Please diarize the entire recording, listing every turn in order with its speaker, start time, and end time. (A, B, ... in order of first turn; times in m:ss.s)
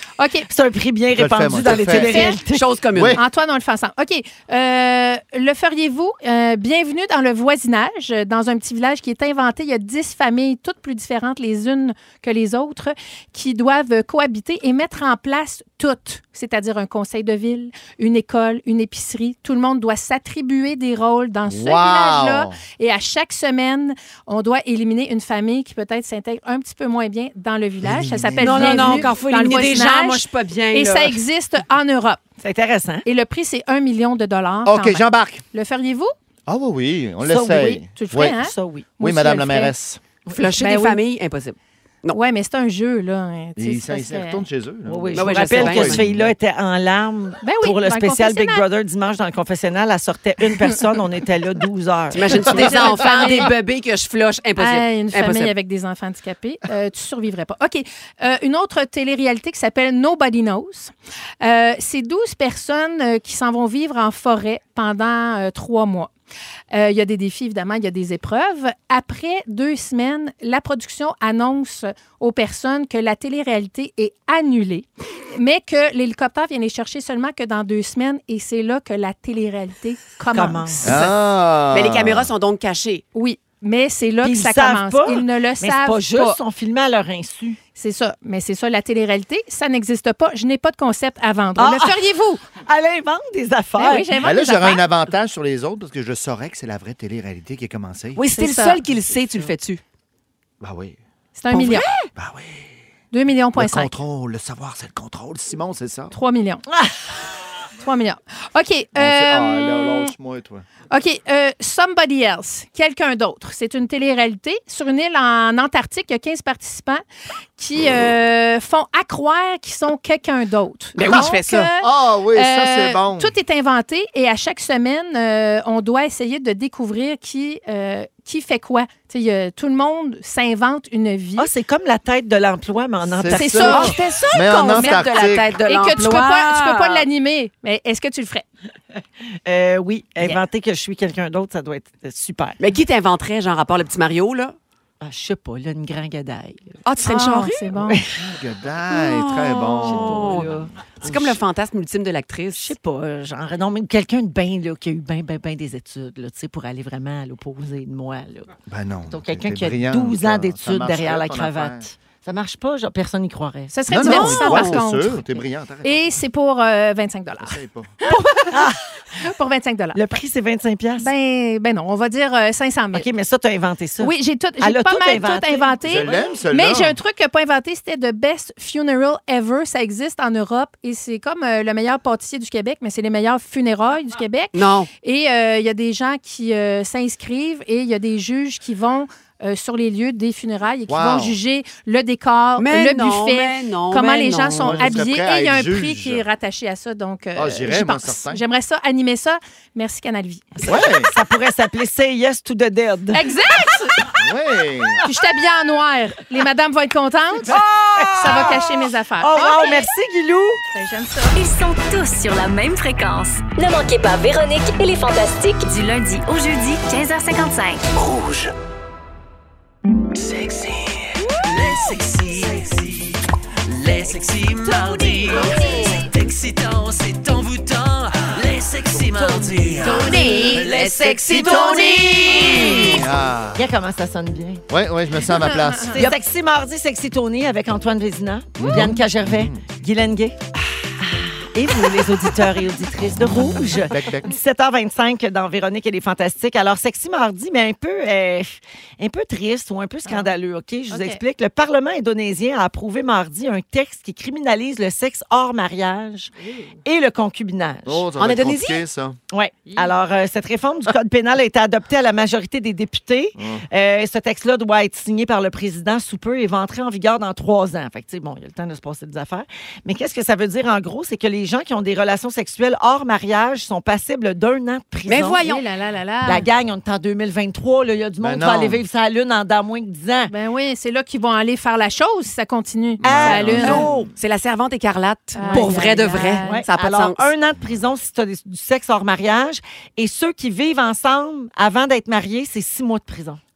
0:00.2-0:00.5 A
0:00.5-0:02.7 B
0:01.1-0:02.2 C
0:01.9-0:02.4 A
0:02.5-0:03.2 D
0:02.9-0:03.2 C
0:03.1-0:32.2 A
0:21.5-0:22.6 C
0:27.8-0:29.1 C
0:28.4-0:31.2 D
0:32.4-0:33.0 B
0:33.0-0:36.1 A
0:34.6-0:35.4 C
0:36.5-0:38.4 C
0:37.2-0:38.9 B
0:37.6-0:39.7 A
0:39.0-0:40.0 C
0:40.3-0:42.2 D
0:40.6-0:41.0 A
0:42.1-0:44.4 A
0:43.6-0:46.3 C
0:44.8-0:52.8 B
0:45.1-0:46.0 D
0:47.4-0:48.6 A
0:52.1-0:55.5 D
0:52.5-0:53.5 A
0:54.6-1:06.1 A
1:06.7-1:21.0 A
1:20.3-1:21.1 B
1:20.8-1:22.3 C
1:21.7-1:23.0 D
1:23.1-1:26.4 A
1:24.2-1:27.6 B
1:27.8-1:32.4 A
1:31.6-1:32.0 B
1:32.6-1:34.1 B
1:33.8-1:34.8 A
1:34.2-1:38.2 C
1:38.2-1:39.8 D
1:38.4-1:38.8 A
1:40.6-1:41.0 C
1:41.3-1:41.9 A
1:41.5-1:42.1 D
1:42.2-1:42.7 C
1:43.1-1:43.9 A
1:43.5-1:46.1 C
1:46.1-1:46.6 A
1:47.8-1:50.1 A
1:48.9-1:50.6 C
1:50.9-1:57.0 A
1:57.6-2:11.5 A
2:01.0-2:01.7 D
2:01.1-2:03.3 C
2:11.4-2:14.0 B
2:13.0-2:15.6 C
2:13.3-2:15.1 A
2:13.7-2:17.0 D
2:15.6-2:18.4 A
2:19.4-2:22.6 B
2:22.6-2:24.6 D
2:25.0-2:26.8 B
2:26.8-2:27.7 D
2:27.0-2:28.0 A
2:27.7-2:28.1 B
2:28.1-2:30.4 C
2:28.9-2:32.7 D
2:29.8-2:31.4 B
2:32.5-2:38.5 B
2:38.7-2:41.8 C
2:39.1-2:44.2 B
2:43.7-2:45.2 A
2:43.9-2:46.1 C
2:44.0-2:44.8 D
2:45.8-2:50.0 A
2:47.4-2:47.9 C
2:48.1-2:48.8 B
2:49.9-2:51.1 B
2:51.0-2:53.1 A
2:52.9-2:56.3 B
2:54.0-3:20.6 A
2:55.8-2:57.0 C
3:04.5-3:04.9 D
3:10.9-3:11.4 C
3:12.6-3:15.0 D
3:14.6-3:16.2 C
3:17.4-3:18.4 C
3:20.6-3:23.3 B
3:20.6-3:21.1 C
3:23.1-3:24.0 A
3:24.2-3:25.0 C
3:25.0-3:27.6 A
3:27.4-3:30.6 B
3:28.1-3:29.9 A
3:30.7-3:31.3 A
3:31.3-3:34.9 E
3:33.6-3:35.6 F
3:35.4-3:37.8 E
3:38.0-3:38.5 G
3:40.1-3:52.3 G
3:49.2-3:53.0 B
3:49.8-3:53.0 D
3:52.7-3:53.7 C
3:53.6-3:54.6 B
3:54.7-3:56.0 C
3:55.3-3:56.0 A
3:55.9-4:00.4 B
3:58.6-3:59.6 C
4:01.0-4:16.3 B
4:03.8-4:04.4 C
4:10.1-4:10.3 A
4:10.9-4:11.2 A
4:16.4-4:16.7 A
4:16.8-4:18.0 B
4:17.8-4:19.2 C
4:18.2-4:18.8 D
4:19.3-4:35.4 B
4:23.4-4:23.6 C
4:35.0-4:35.6 D
4:35.4-4:36.5 A
4:36.2-4:40.3 B
4:38.2-4:38.8 C
4:40.3-4:43.9 A
4:43.0-4:44.1 C
4:43.0-4:44.1 B
4:43.6-4:47.3 D
4:45.3-4:46.6 A
4:45.4-4:53.4 B